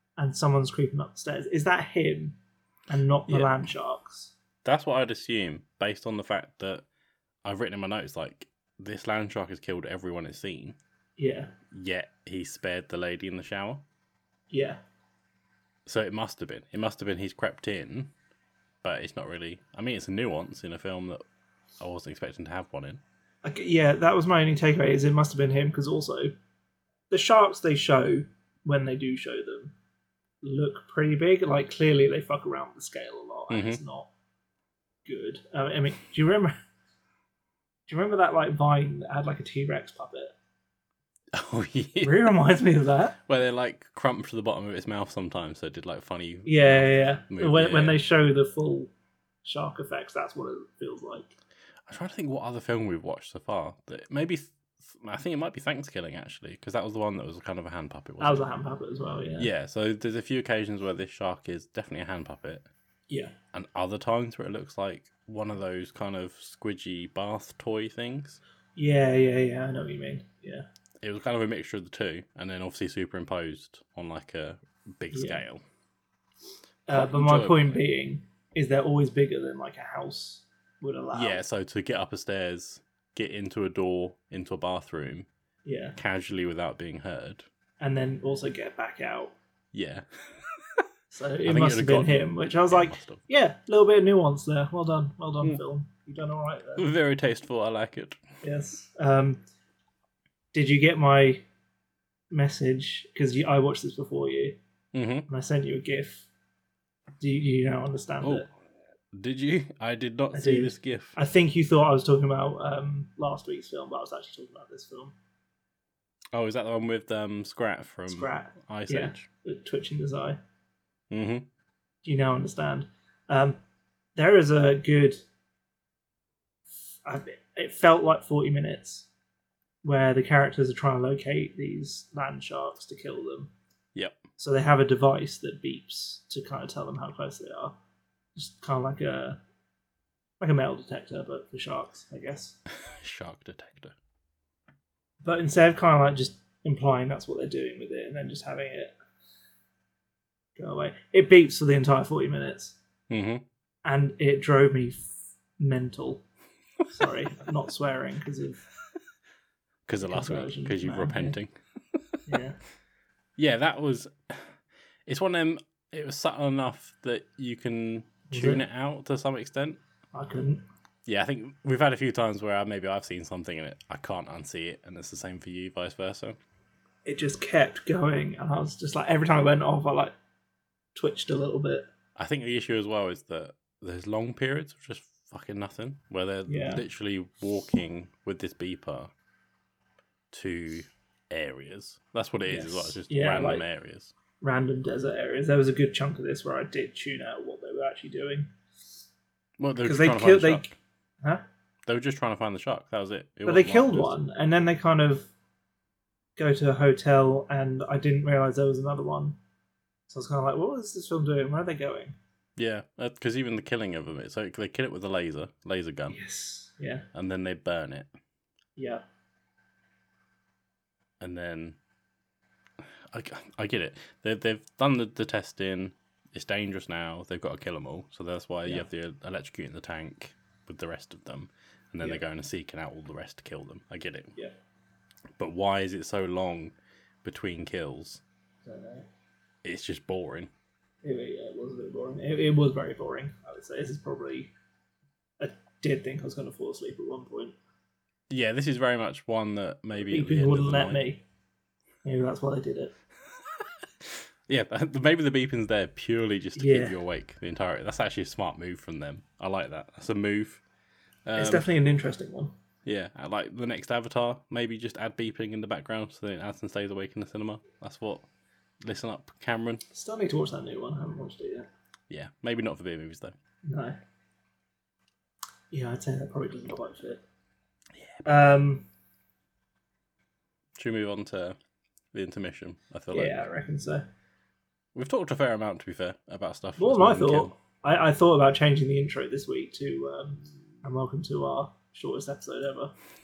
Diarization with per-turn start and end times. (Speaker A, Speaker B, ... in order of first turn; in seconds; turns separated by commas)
Speaker A: 0.2-2.4, Speaker A: 2.9-4.3, Speaker B: 3.3-3.5, Speaker B: 4.6-6.8, Speaker B: 7.4-10.8, Speaker A: 11.2-11.5, Speaker B: 11.7-13.8, Speaker A: 14.5-14.8, Speaker B: 15.9-18.1, Speaker B: 18.8-21.2, Speaker B: 21.8-23.0, Speaker A: 23.4-26.3, Speaker A: 27.1-29.7, Speaker A: 30.4-34.1, Speaker B: 33.5-33.8, Speaker A: 35.0-36.5, Speaker A: 37.9-40.4, Speaker B: 41.3-42.3, Speaker A: 42.0-43.2, Speaker B: 43.3-48.0, Speaker A: 46.5-48.9, Speaker A: 49.4-51.4, Speaker B: 51.9-58.5, Speaker A: 58.2-59.5, Speaker B: 59.4-62.7, Speaker B: 63.5-68.4, Speaker A: 68.8-70.7, Speaker B: 71.0-75.6, Speaker A: 75.1-75.4, Speaker A: 76.9-81.4, Speaker B: 76.9-77.8, Speaker B: 81.1-85.3, Speaker A: 85.7-86.0, Speaker B: 86.0-87.5, Speaker A: 87.8-89.3, Speaker B: 89.7-90.8, Speaker A: 91.1-96.9, Speaker B: 91.4-93.2, Speaker B: 96.8-98.2, Speaker A: 98.4-99.4, Speaker A: 100.5-101.5, Speaker A: 102.3-104.6, Speaker B: 104.9-105.3, Speaker A: 105.3-106.3, Speaker A: 107.2-108.5, Speaker B: 108.2-108.5, Speaker B: 109.1-111.2, Speaker A: 110.3-115.2, Speaker B: 116.3-119.3, Speaker A: 118.1-120.4, Speaker B: 121.1-121.5, Speaker A: 122.0-123.6, Speaker A: 124.2-125.2, Speaker A: 127.0-129.1, Speaker A: 129.8-133.5, Speaker B: 133.9-134.2, Speaker A: 134.4-137.8, Speaker A: 138.4-139.4, Speaker A: 140.4-142.6, Speaker B: 142.7-143.9, Speaker A: 145.2-148.9, Speaker A: 150.6-152.8, Speaker B: 153.1-153.4, Speaker A: 153.8-156.2, Speaker A: 156.9-158.6, Speaker B: 159.9-162.4, Speaker A: 160.0-161.4, Speaker A: 162.3-162.6, Speaker B: 163.4-169.8, Speaker A: 168.3-168.6, Speaker A: 170.1-170.6, Speaker B: 171.1-176.4, Speaker A: 177.1-180.1, Speaker A: 180.9-181.9, Speaker B: 182.2-189.1, Speaker A: 186.5-186.8, Speaker B: 190.3-194.1, Speaker A: 192.5-193.7, Speaker A: 194.4-198.5, Speaker B: 199.6-200.8, Speaker A: 199.8-200.7, Speaker B: 201.9-204.2, Speaker A: 203.5-205.3, Speaker A: 206.4-209.4, Speaker A: 210.1-212.2, Speaker B: 212.6-216.2, Speaker A: 216.1-217.1, Speaker B: 217.1-218.1, Speaker A: 218.8-219.0, Speaker B: 221.2-221.8, Speaker B: 222.8-234.3, Speaker B: 235.4-238.2, Speaker A: 238.6-239.1, Speaker B: 239.6-240.5, Speaker A: 241.0-244.5, Speaker A: 245.4-247.6, Speaker B: 248.3-251.1, Speaker A: 250.0-251.2, Speaker A: 252.1-252.9, Speaker B: 254.0-260.6, Speaker A: 256.6-257.0, Speaker B: 261.3-261.7, Speaker A: 261.4-262.5, Speaker B: 262.9-268.3, Speaker B: 268.8-269.8, Speaker A: 269.9-271.7, Speaker B: 272.1-273.4, Speaker A: 273.7-274.0, Speaker A: 275.7-277.2, Speaker B: 278.0-278.2, Speaker A: 278.2-278.9, Speaker B: 280.8-281.6, Speaker B: 282.1-283.5, Speaker A: 283.1-284.1, Speaker B: 284.9-287.5, Speaker A: 286.8-292.9